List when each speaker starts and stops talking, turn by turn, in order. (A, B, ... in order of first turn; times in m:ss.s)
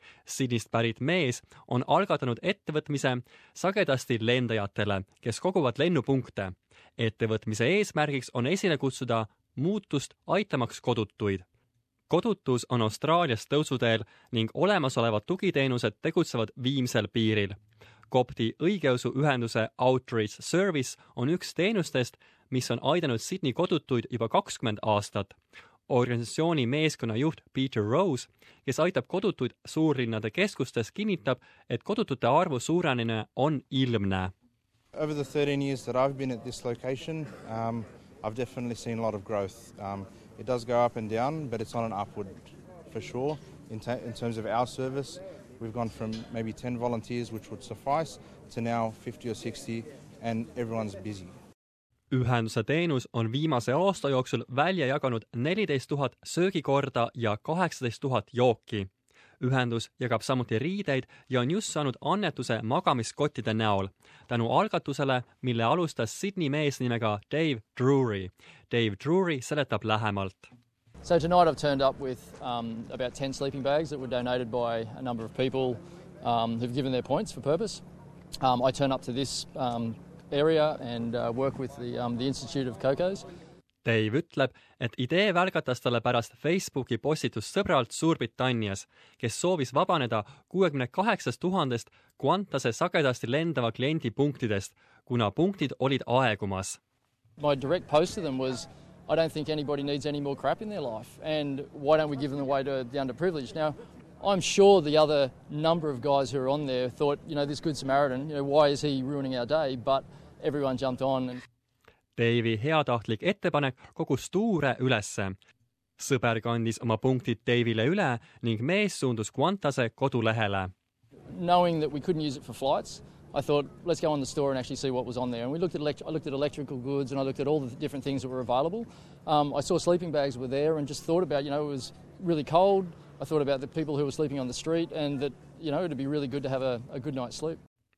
0:00.2-0:11.4 A
0:12.1-0:17.6 A
0:18.1-0:25.4 A
0:25.9-0:34.3 A
0:34.9-0:51.3 B
0:52.1-0:58.9 A
0:59.4-1:10.5 A
1:11.0-1:17.8 C
1:18.4-1:23.2 C
1:23.8-1:36.8 A
1:37.4-1:51.4 C
1:52.2-1:55.4 A
1:56.0-2:00.7 A
2:01.3-2:17.6 C